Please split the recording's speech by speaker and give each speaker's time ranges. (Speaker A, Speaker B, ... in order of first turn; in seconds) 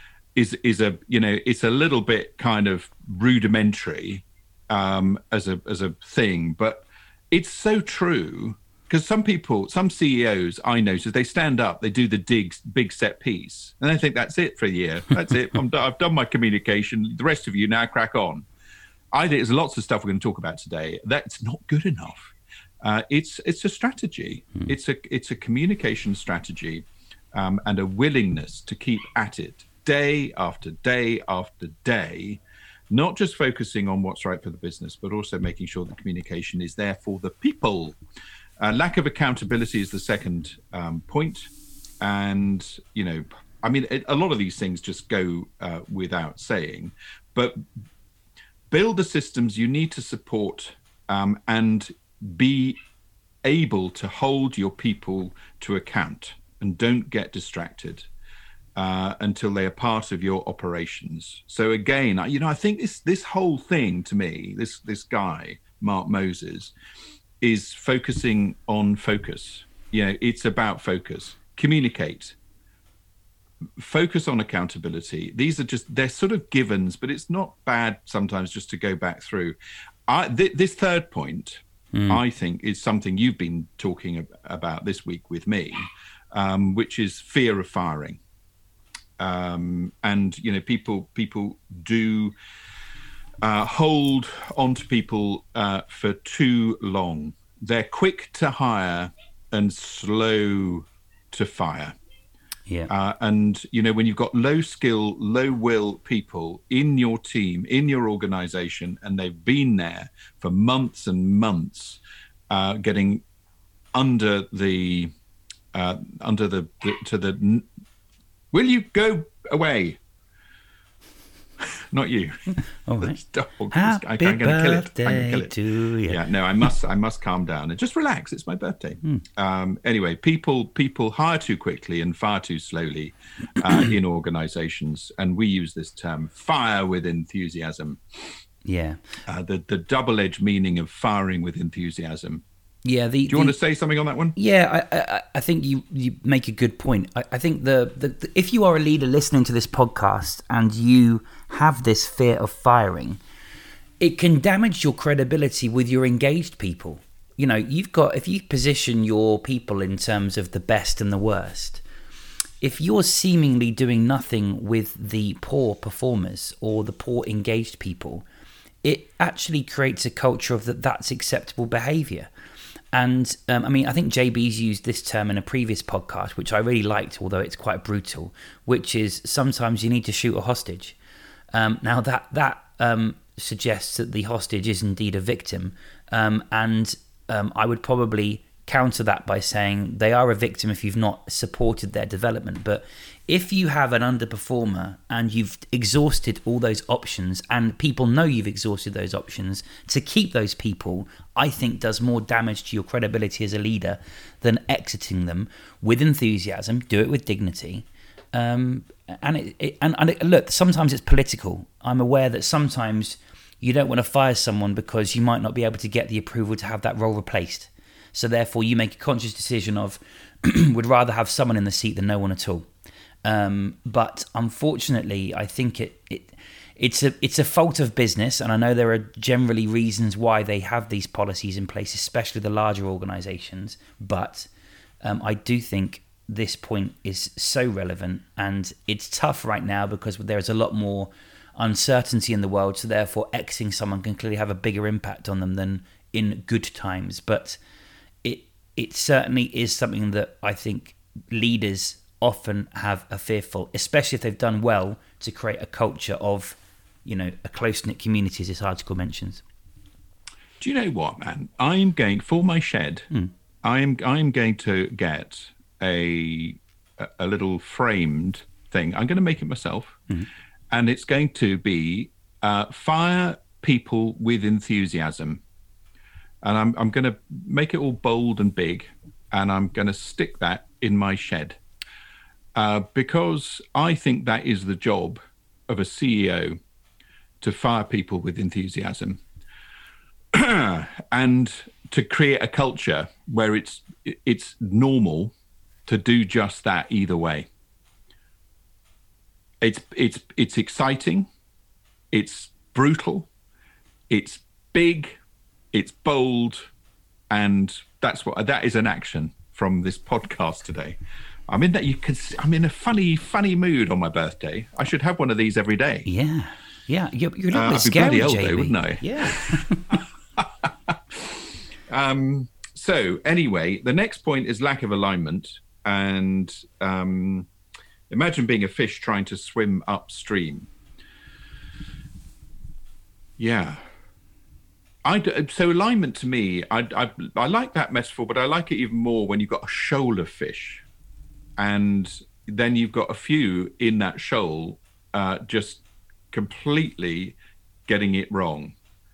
Speaker A: 0.3-18.5, 19.1-38.0, 38.6-41.5, 42.0-47.6, 48.7-52.8, 53.4-58.1, 58.8-66.7, 67.4-72.4, 73.8-79.5, 80.1-88.2, 89.2-92.3, 93.4-102.0, 102.9-113.2, 113.9-115.1, 115.7-117.7, 118.5-120.0, 121.6-125.5, 126.1-138.0, 139.2-142.4, 143.3-144.3, 260.6-263.1, 263.6-270.0, 270.7-275.4, 276.4-281.6, 282.5-286.6, 287.4-289.2, 290.3-295.3, 295.9-297.5, 299.6-301.3, 302.1-303.3, 304.1-305.2, 305.7-306.7, 307.3-311.0, 311.5-316.1, 317.5-327.5, 328.1-330.7, 333.4-333.8, 335.0-340.9, 341.6-348.8
Speaker B: 81.9-82.2, 122.8-123.2, 123.7-126.2, 138.6-139.0, 142.8-143.6, 144.3-153.2, 154.0-161.8, 162.6-168.2, 168.8-172.3, 172.9-181.0, 181.5-222.7, 223.2-234.5, 235.0-247.6, 248.2-259.4, 316.1-320.0